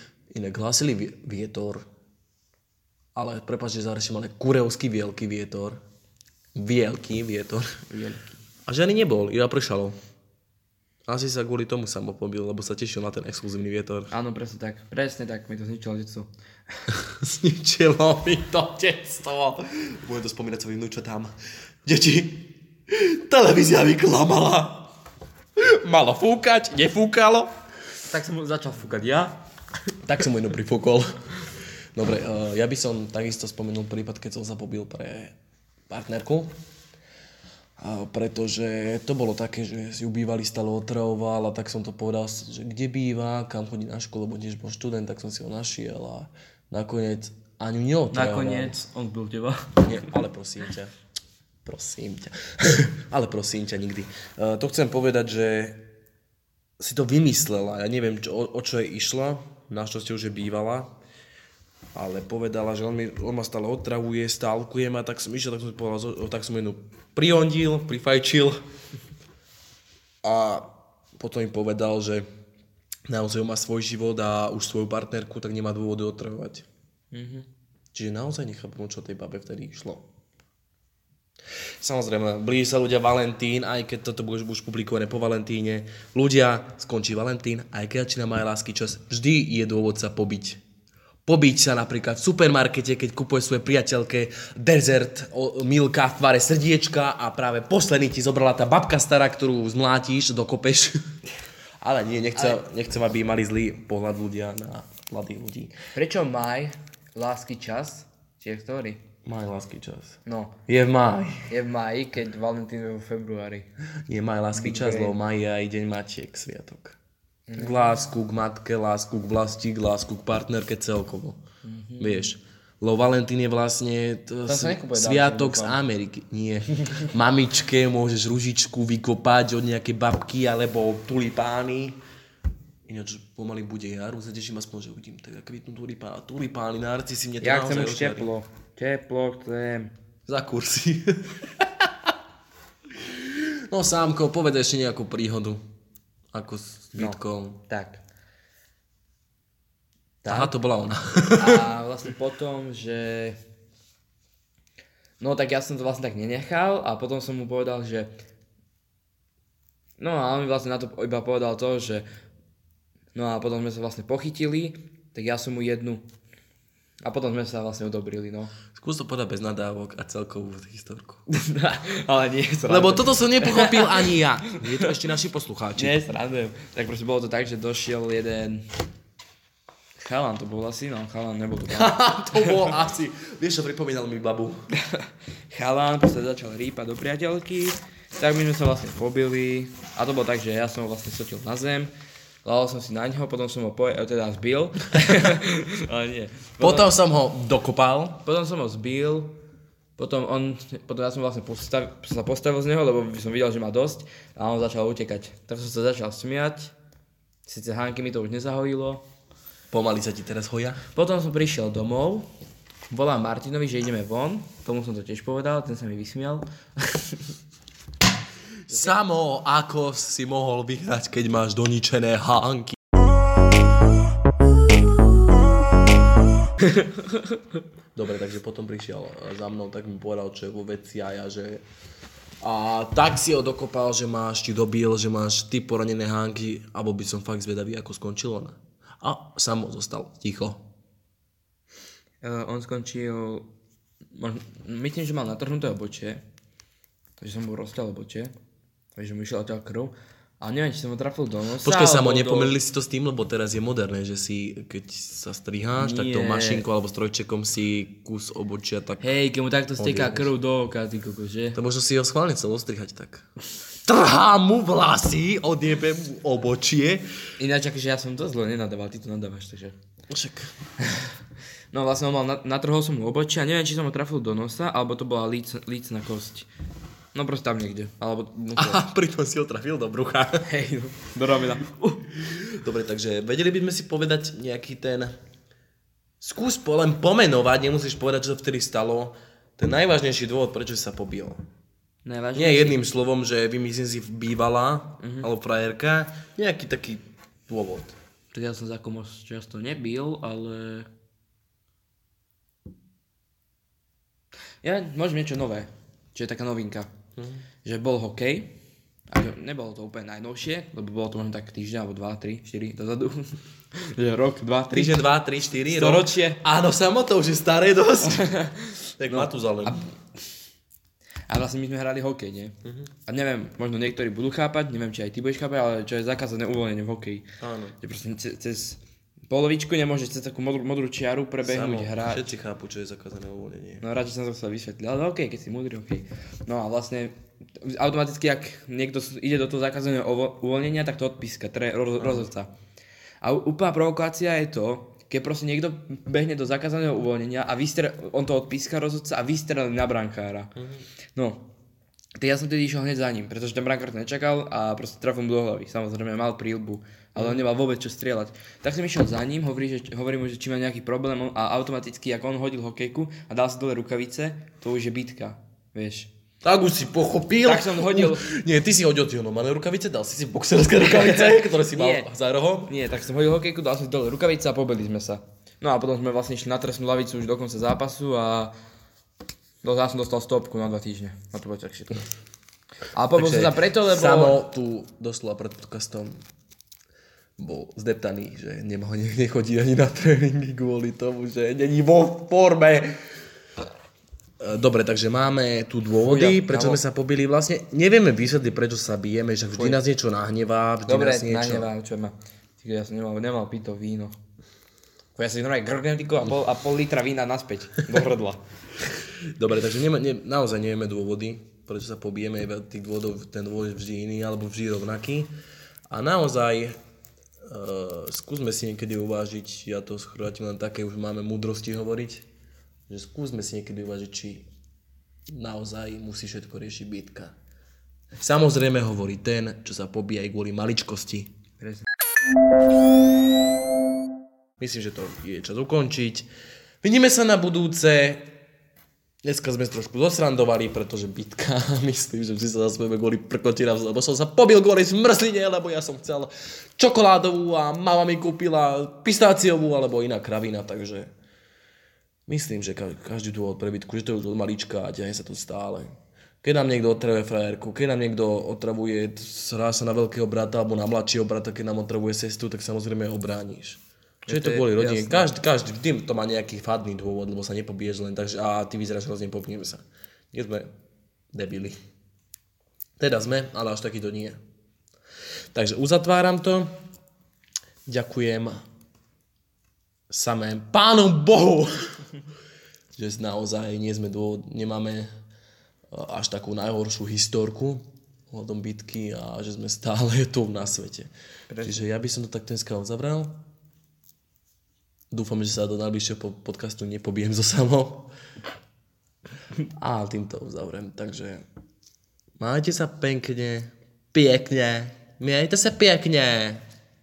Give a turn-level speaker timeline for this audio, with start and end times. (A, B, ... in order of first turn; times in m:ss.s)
0:00.3-0:01.8 A
0:03.2-0:05.8 A
0:06.6-0:07.8 A
0:07.9-0:08.4 B
0:08.7-0:10.0 A
0:11.1-0:14.1 A
0:14.1-0:16.3 B
0:16.9-0:21.3 A
0:21.9-0:24.9 A
0:25.6-0:27.5 A
0:28.0-0:29.4 B
0:30.0-0:31.1 A
0:32.0-0:35.4 A
0:35.9-0:36.6 A
0:37.8-0:48.8 A
0:48.1-0:50.1 B
0:49.8-0:51.0 A
0:51.6-0:55.8 A
0:56.8-1:00.9 A
1:02.0-1:08.6 A
1:10.2-1:12.2 A
1:13.1-1:16.7 A
1:17.1-1:17.5 B
1:17.9-1:20.0 A
1:21.8-1:30.6 A
1:31.3-1:41.0 A
1:41.8-1:45.8 A
1:46.0-1:49.0 B
1:49.2-1:51.5 A
1:50.3-1:50.6 B
1:51.5-1:53.7 B
1:54.1-1:57.0 A
1:54.6-1:55.2 B
1:57.5-1:57.8 B
1:57.5-2:01.4 A
2:01.6-2:02.3 B
2:02.0-2:12.0 A
2:04.5-2:05.8 B
2:12.9-2:18.3 A
2:17.4-2:19.9 B
2:20.3-2:21.6 A
2:23.0-2:25.6 A
2:26.3-2:27.6 A
2:27.0-2:28.0 B
2:30.2-2:30.5 B
2:30.3-2:31.6 A
2:31.4-2:33.4 B
2:35.2-2:38.1 B
2:40.0-2:42.0 B
2:43.2-2:46.0 B
2:47.0-2:48.5 B
2:48.7-2:51.2 A
2:51.3-2:54.9 B
2:52.7-2:56.0 A
2:55.8-2:58.6 B
3:00.0-3:02.7 B
3:01.6-3:04.7 A
3:04.7-3:11.9 B
3:12.4-3:16.9 B
3:16.6-3:18.2 A
3:18.2-3:19.4 B
3:20.0-3:26.7 B
3:27.5-3:29.0 B
3:29.7-3:30.8 A
3:30.9-3:32.3 B
3:32.9-3:37.3 B
3:38.6-3:42.8 A
3:46.7-3:47.2 B
3:48.0-3:51.6 A
3:52.4-4:00.6 A
4:02.2-4:03.5 B
4:04.1-4:06.2 B
4:07.2-4:08.3 B
4:09.0-4:12.6 B
4:11.6-4:19.0 A
4:15.8-4:16.6 B
4:19.0-4:21.6 B
4:19.8-4:20.3 A
4:21.6-4:23.2 A
4:23.8-4:27.0 A
4:27.4-4:29.8 B
4:30.1-4:30.5 A
4:30.8-4:31.1 B
4:31.7-4:36.5 B
4:37.1-4:38.8 B
4:38.6-4:40.5 A
4:40.5-4:42.0 B
4:42.2-4:45.2 A
4:46.2-4:51.4 A
4:52.0-4:52.8 B
4:52.4-4:58.0 A
4:55.0-4:55.3 B
4:58.3-5:00.9 B
5:04.6-5:06.9 B
5:07.2-5:07.4 A
5:07.6-5:08.6 B
5:09.1-5:15.0 B
5:14.7-5:18.3 A
5:15.7-5:16.4 B
5:18.0-5:19.8 B
5:19.0-5:19.8 A
5:21.3-5:22.6 B
5:22.6-5:22.9 A
5:23.1-5:27.2 B
5:27.4-5:27.8 A
5:27.8-5:32.3 B
5:31.4-5:33.8 A
5:33.8-5:42.5 B
5:42.0-5:42.3 A
5:43.2-5:50.5 B
5:50.6-5:50.9 A
5:51.2-5:51.5 B
5:52.2-6:06.1 B
6:06.4-6:12.7 A
6:07.4-6:08.3 B
6:10.8-6:12.1 B
6:12.6-6:18.5 B
6:19.6-6:22.0 B
6:22.9-6:24.4 B
6:23.1-6:26.2 A
6:27.4-6:33.1 A
6:34.4-6:41.7 A
6:36.0-6:36.8 B
6:39.5-6:39.8 B
6:40.9-6:44.2 B
6:45.2-6:48.4 B
6:49.4-6:55.3 A
6:55.9-6:56.8 A
6:57.4-7:02.3 A
7:02.9-7:04.5 A
7:05.3-7:07.4 A
7:08.2-7:11.3 A
7:11.6-7:11.9 B
7:14.6-7:16.3 A
7:16.8-7:18.3 A
7:19.2-7:31.1 A
7:32.3-7:50.7 A
7:44.3-7:45.3 B
7:51.3-7:51.8 A
7:53.0-7:54.4 A
7:55.5-7:56.7 A
7:57.9-7:58.6 A
8:00.1-8:02.1 A
8:03.0-8:05.1 A
8:05.9-8:13.4 A
8:11.5-8:11.9 B
8:15.1-8:18.1 A
8:19.8-8:21.4 A
8:22.4-8:26.6 A